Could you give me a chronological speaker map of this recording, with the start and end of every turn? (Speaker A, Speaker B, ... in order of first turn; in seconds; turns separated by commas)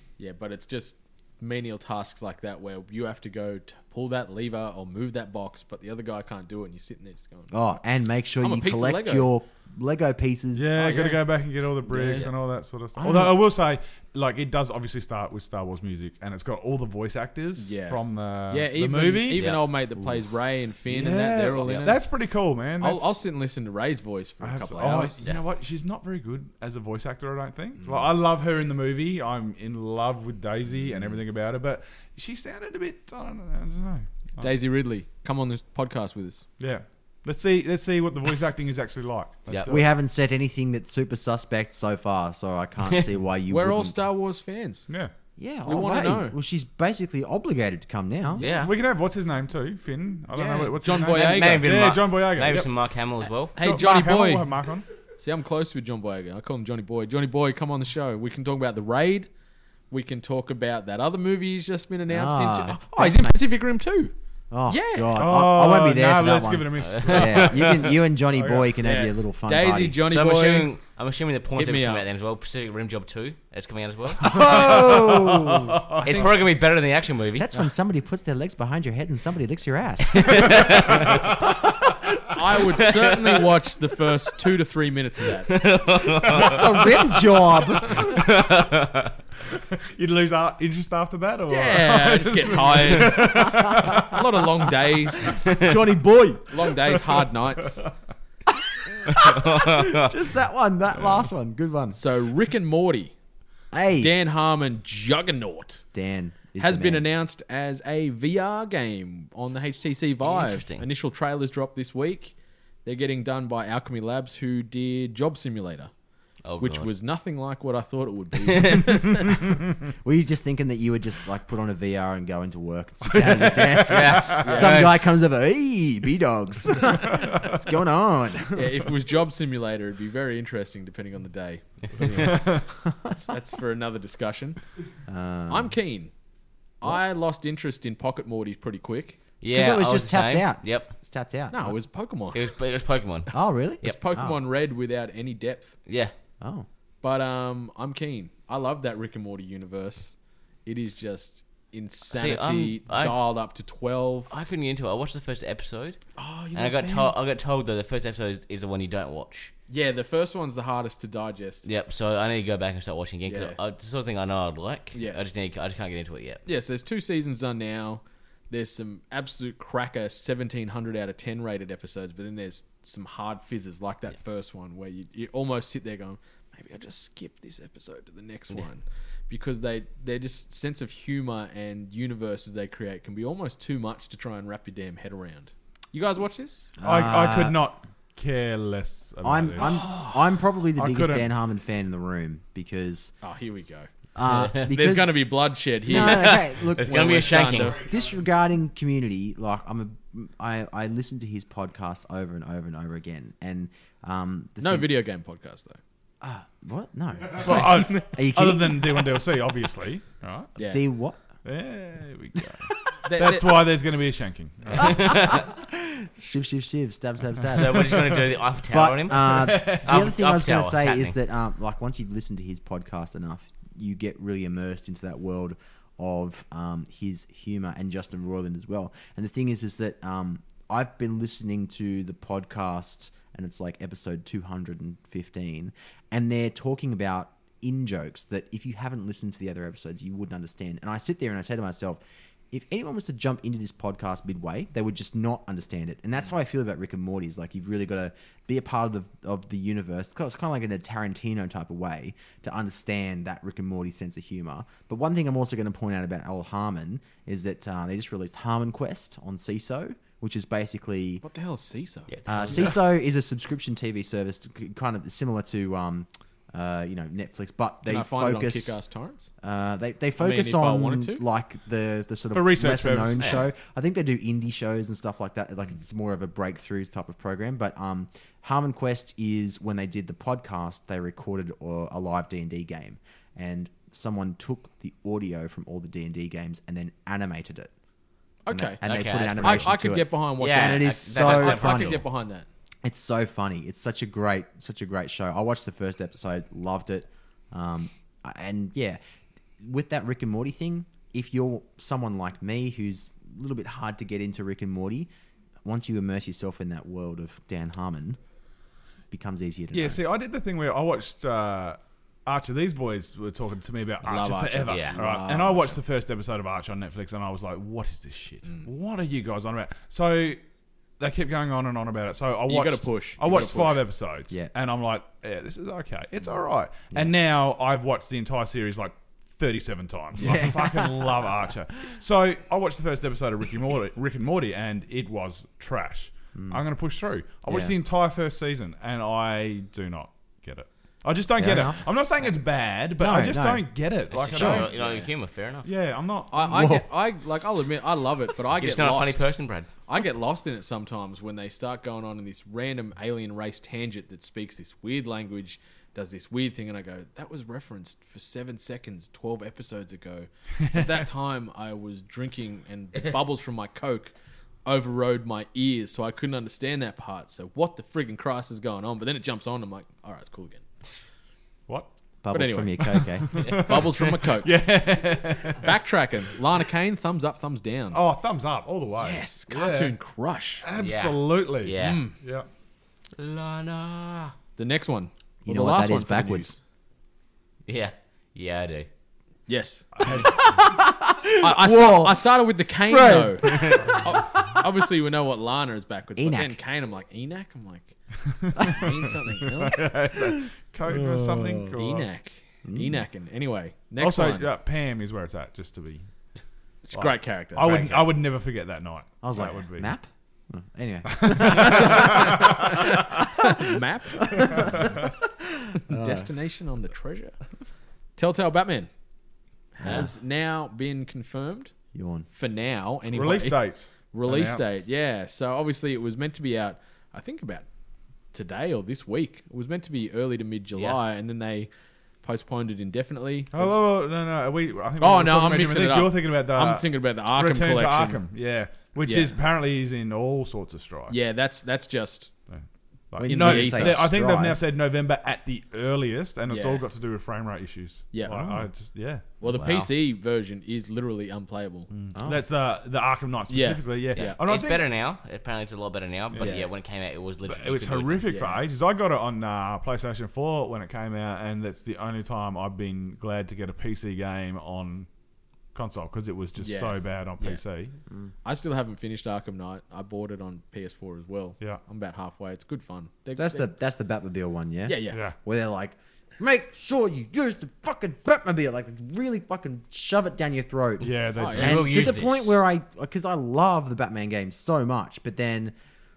Speaker A: 0.2-7.8, Speaker B: 7.5-11.1, Speaker A: 8.4-9.3, Speaker C: 10.5-19.5, Speaker A: 10.8-12.3, Speaker B: 13.0-13.4, Speaker A: 17.6-22.1, Speaker D: 19.3-19.6, Speaker C: 20.9-23.2, Speaker D: 21.6-21.9, Speaker A: 22.8-25.2, Speaker C: 24.4-34.5, Speaker D: 24.8-25.4, Speaker A: 34.4-36.5, Speaker C: 36.6-39.9, Speaker D: 39.5-39.7, Speaker B: 39.7-44.0, Speaker A: 43.5-44.9, Speaker B: 45.4-48.4, Speaker A: 45.6-46.3, Speaker D: 48.4-48.7, Speaker A: 48.4-48.6, Speaker C: 48.4-52.7, Speaker A: 50.3-51.7, Speaker D: 51.1-53.5, Speaker A: 53.5-54.5, Speaker C: 53.5-54.8, Speaker A: 55.2-59.3, Speaker A: 59.9-64.1, Speaker B: 62.1-63.5, Speaker B: 64.5-70.0, Speaker A: 64.7-65.1, Speaker C: 65.1-67.7, Speaker D: 66.8-67.9, Speaker C: 68.3-68.7, Speaker A: 68.8-70.7, Speaker D: 70.1-74.4, Speaker A: 71.5-72.0, Speaker C: 74.2-76.3, Speaker B: 74.2-76.3, Speaker D: 76.0-77.5, Speaker B: 77.3-81.9, Speaker D: 80.2-81.2, Speaker C: 81.0-81.3, Speaker A: 82.3-85.5, Speaker D: 85.5-86.7, Speaker B: 86.3-88.1, Speaker C: 86.3-86.6, Speaker D: 88.0-89.1, Speaker C: 89.5-94.3, Speaker A: 91.5-95.3, Speaker B: 93.2-94.1, Speaker B: 95.6-96.5, Speaker A: 96.5-97.8, Speaker B: 98.9-102.0, Speaker D: 99.2-100.1, Speaker A: 101.9-103.1, Speaker B: 103.7-104.2, Speaker A: 104.0-105.8, Speaker B: 105.9-107.0, Speaker A: 106.6-112.3, Speaker D: 110.2-110.8, Speaker A: 112.8-115.9, Speaker D: 116.4-116.9, Speaker A: 116.6-119.3, Speaker D: 118.5-118.9, Speaker B: 120.0-128.7, Speaker A: 123.5-124.8, Speaker D: 123.8-125.0, Speaker A: 128.5-132.5, Speaker C: 132.1-132.7, Speaker B: 132.8-133.1, Speaker A: 133.1-134.6, Speaker B: 135.1-135.7, Speaker A: 135.5-136.1, Speaker A: 136.8-139.2, Speaker D: 139.4-140.9, Speaker B: 139.5-141.8, Speaker A: 141.5-142.5, Speaker D: 142.3-144.0, Speaker B: 143.3-144.4, Speaker A: 143.8-145.7, Speaker D: 145.8-146.1, Speaker B: 146.4-146.7, Speaker A: 147.0-154.3, Speaker D: 152.1-153.2, Speaker D: 154.3-156.0, Speaker A: 156.2-157.1, Speaker D: 156.5-159.5, Speaker A: 159.7-161.6, Speaker D: 161.6-166.4, Speaker A: 163.3-163.6, Speaker A: 164.9-165.2, Speaker A: 166.4-186.7, Speaker B: 186.8-187.6, Speaker C: 186.8-189.9, Speaker B: 189.2-193.1, Speaker A: 189.6-190.1, Speaker C: 190.8-191.3, Speaker A: 193.2-193.9, Speaker B: 194.1-195.3, Speaker D: 194.3-194.6, Speaker A: 194.4-197.8, Speaker B: 195.8-204.9, Speaker D: 195.9-197.8, Speaker A: 204.6-205.8, Speaker B: 206.2-209.1, Speaker C: 207.4-210.5, Speaker A: 210.6-210.8, Speaker B: 210.6-211.2, Speaker C: 211.4-215.3, Speaker A: 213.0-213.6, Speaker D: 214.7-215.4, Speaker B: 214.8-242.0, Speaker D: 217.5-221.1, Speaker C: 217.9-218.2, Speaker C: 219.2-220.1, Speaker B: 242.5-261.2, Speaker A: 261.2-262.8, Speaker D: 262.1-262.7, Speaker B: 262.3-268.8, Speaker A: 267.9-269.3, Speaker B: 269.4-287.7, Speaker A: 270.2-271.2, Speaker C: 272.3-273.4, Speaker A: 288.4-292.5, Speaker B: 288.5-292.0, Speaker D: 288.8-289.8, Speaker D: 290.4-292.0, Speaker B: 292.8-299.0, Speaker B: 299.6-305.1, Speaker B: 305.6-308.2, Speaker B: 309.1-310.0, Speaker C: 309.7-320.4, Speaker A: 314.0-315.8, Speaker D: 314.7-315.0, Speaker C: 321.0-344.9, Speaker A: 322.5-323.8, Speaker B: 330.2-331.4, Speaker B: 336.3-336.6, Speaker B: 337.5-337.8, Speaker B: 341.4-341.9, Speaker B: 343.0-343.7, Speaker D: 344.1-345.7, Speaker B: 344.2-344.7, Speaker A: 344.7-345.1, Speaker C: 345.6-346.8, Speaker A: 346.3-349.3, Speaker B: 346.4-346.8, Speaker D: 348.6-349.7, Speaker A: 349.9-364.1, Speaker A: 364.6-370.6, Speaker B: 372.2-373.3, Speaker A: 372.3-374.5, Speaker C: 372.8-375.7, Speaker A: 375.6-378.0, Speaker C: 377.9-379.9, Speaker A: 379.0-380.6, Speaker C: 380.6-382.5, Speaker D: 380.8-382.0, Speaker A: 381.8-382.1, Speaker D: 383.2-384.3, Speaker A: 384.6-386.6, Speaker B: 385.4-386.5, Speaker D: 387.7-388.9, Speaker A: 389.5-390.3, Speaker C: 390.0-390.3, Speaker B: 390.1-394.6, Speaker A: 391.4-398.0, Speaker D: 393.5-394.0, Speaker B: 396.1-396.6, Speaker C: 398.3-402.1, Speaker A: 398.6-399.9, Speaker B: 400.9-401.7, Speaker A: 401.7-404.5, Speaker B: 402.6-403.0, Speaker C: 404.0-406.1, Speaker A: 406.9-408.2, Speaker C: 406.9-409.9, Speaker B: 409.2-413.4, Speaker C: 411.1-412.8, Speaker A: 411.6-414.7, Speaker B: 414.2-416.3, Speaker C: 414.6-414.9, Speaker A: 415.9-417.3, Speaker A: 418.2-418.9, Speaker A: 419.8-421.7, Speaker B: 419.8-420.1, Speaker B: 421.9-422.2, Speaker A: 422.3-427.6, Speaker C: 423.1-424.8, Speaker A: 428.3-431.7, Speaker A: 432.2-433.8, Speaker C: 433.5-441.2, Speaker A: 435.0-438.2, Speaker A: 439.0-439.3, Speaker A: 441.1-442.3, Speaker C: 442.5-449.3, Speaker B: 443.2-444.6, Speaker A: 443.2-444.1, Speaker A: 446.5-446.8, Speaker A: 448.1-448.6, Speaker A: 449.4-451.9, Speaker D: 449.4-449.9, Speaker C: 451.9-454.9, Speaker B: 452.1-452.4, Speaker A: 453.5-454.4, Speaker D: 454.1-458.3, Speaker C: 456.3-456.6, Speaker A: 456.4-456.7, Speaker C: 457.5-465.1, Speaker A: 458.3-458.6, Speaker C: 465.7-467.9, Speaker A: 466.6-467.6, Speaker A: 468.4-473.7, Speaker B: 473.4-485.7, Speaker A: 474.9-475.2, Speaker C: 481.0-482.2, Speaker A: 481.4-481.8, Speaker D: 481.6-482.6